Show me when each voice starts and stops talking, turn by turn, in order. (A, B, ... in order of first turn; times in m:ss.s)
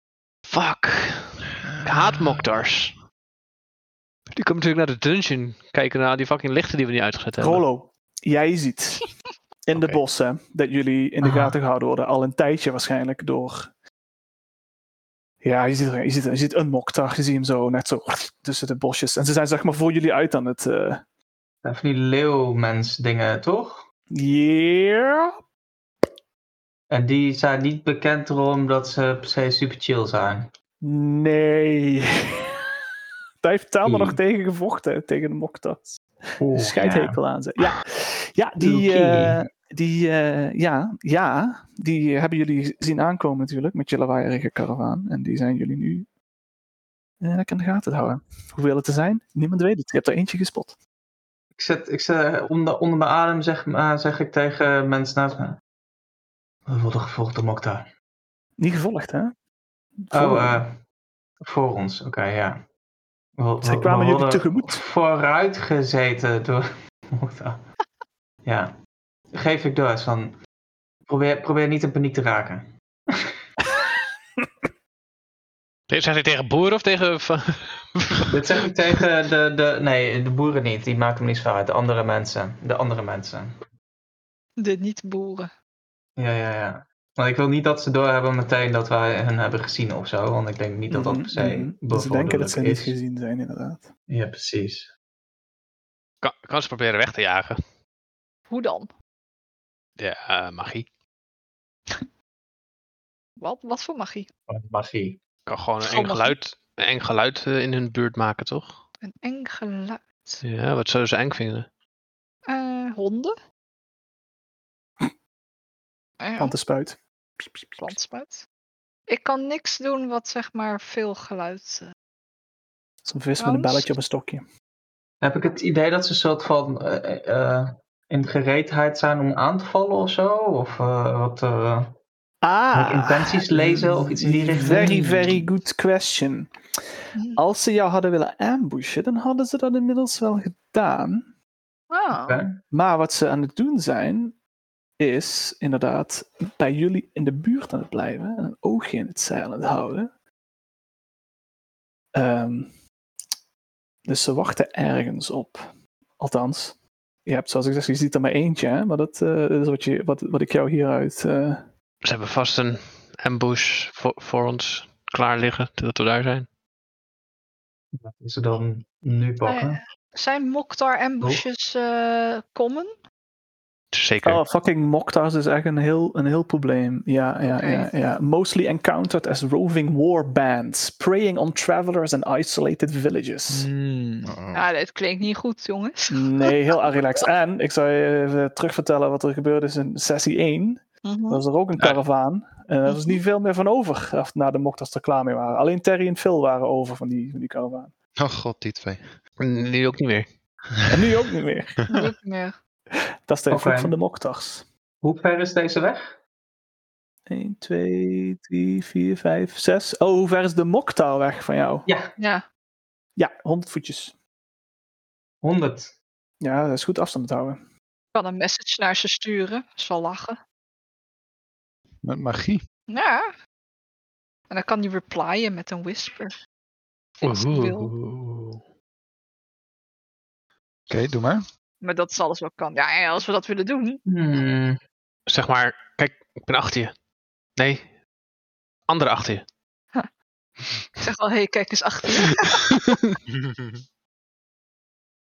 0:00.5-0:03.0 A
0:01.8-0:02.4 B
0:04.3-0:07.6 A
0:07.4-0:09.1 C
0:09.7-0:13.7 C
0:09.8-0:10.0 B
0:15.4-0:21.0 C
0:21.6-0:23.8 D
0:24.1-0:25.3 C
0:26.9-0:30.5 D
0:30.8-0:32.1 C
0:33.4-0:36.0 C
0:33.8-0:34.2 D
0:36.4-0:37.2 D
0:36.5-0:46.1 C
0:38.6-0:39.4 D
0:47.2-0:50.8 C
0:51.6-0:55.6 D
0:56.7-0:57.9 D
0:58.6-0:59.4 C
1:00.0-1:00.6 C
1:00.1-1:00.8 D
1:01.4-1:02.6 D
1:03.4-1:07.6 D
1:03.6-1:04.8 C
1:08.4-1:08.8 D
1:09.3-1:10.4 D
1:11.1-1:13.3 D
1:15.9-1:18.3 A
1:18.3-1:23.6 D
1:24.6-1:25.5 E
1:26.2-1:33.0 D
1:30.9-1:33.9 C
1:34.1-1:34.9 D
1:36.2-1:37.6 A
1:38.5-1:38.9 E
1:40.0-1:40.9 A
1:43.4-1:44.3 E
1:44.5-1:45.2 D
1:45.5-1:48.8 A
1:45.8-1:46.4 E
1:49.0-1:50.4 E
1:50.4-1:51.7 A
1:52.5-1:53.3 E
1:56.2-1:56.6 E
1:56.4-1:58.0 C
1:57.8-1:58.4 E
1:59.1-2:01.9 E
2:03.0-2:04.4 C
2:03.4-2:03.9 E
2:05.2-2:11.9 D
2:12.4-2:16.5 C
2:12.7-2:15.5 D
2:17.4-2:21.3 C
2:21.9-2:22.4 E
2:22.1-2:22.6 D
2:22.7-2:24.4 C
2:25.0-2:30.1 C
2:32.2-2:32.7 C
2:34.1-2:35.7 C
2:36.2-2:41.7 C
2:42.0-2:46.5 A
2:48.0-2:49.8 D
2:49.4-2:52.9 E
2:53.9-2:54.4 A
2:54.2-3:03.7 C
2:57.5-2:57.9 E
3:03.5-3:04.4 F
3:04.3-3:04.7 B
3:04.5-3:07.2 E
3:06.1-3:17.9 C
3:11.0-3:11.4 E
3:12.9-3:13.2 E
3:18.2-3:19.1 B
3:19.4-3:20.3 A
3:20.9-3:21.8 C
3:21.9-3:22.6 E
3:23.3-3:24.7 C
3:23.5-3:23.9 D
3:25.0-3:26.2 D
3:27.3-3:31.9 C
3:32.2-3:32.4 E
3:33.2-3:34.2 C
3:35.4-3:35.9 D
3:36.4-3:37.6 C
3:38.1-3:40.4 E
3:42.0-3:42.6 F
3:42.9-3:43.3 E
3:44.5-3:46.4 E
3:47.2-3:48.6 A
3:47.3-3:47.9 E
3:50.9-3:51.5 F
3:51.8-3:54.0 E
3:54.1-3:54.8 D
3:55.3-3:56.9 A
3:57.6-3:57.9 A
3:58.9-3:59.4 A
4:01.0-4:02.6 E
4:03.4-4:03.7 B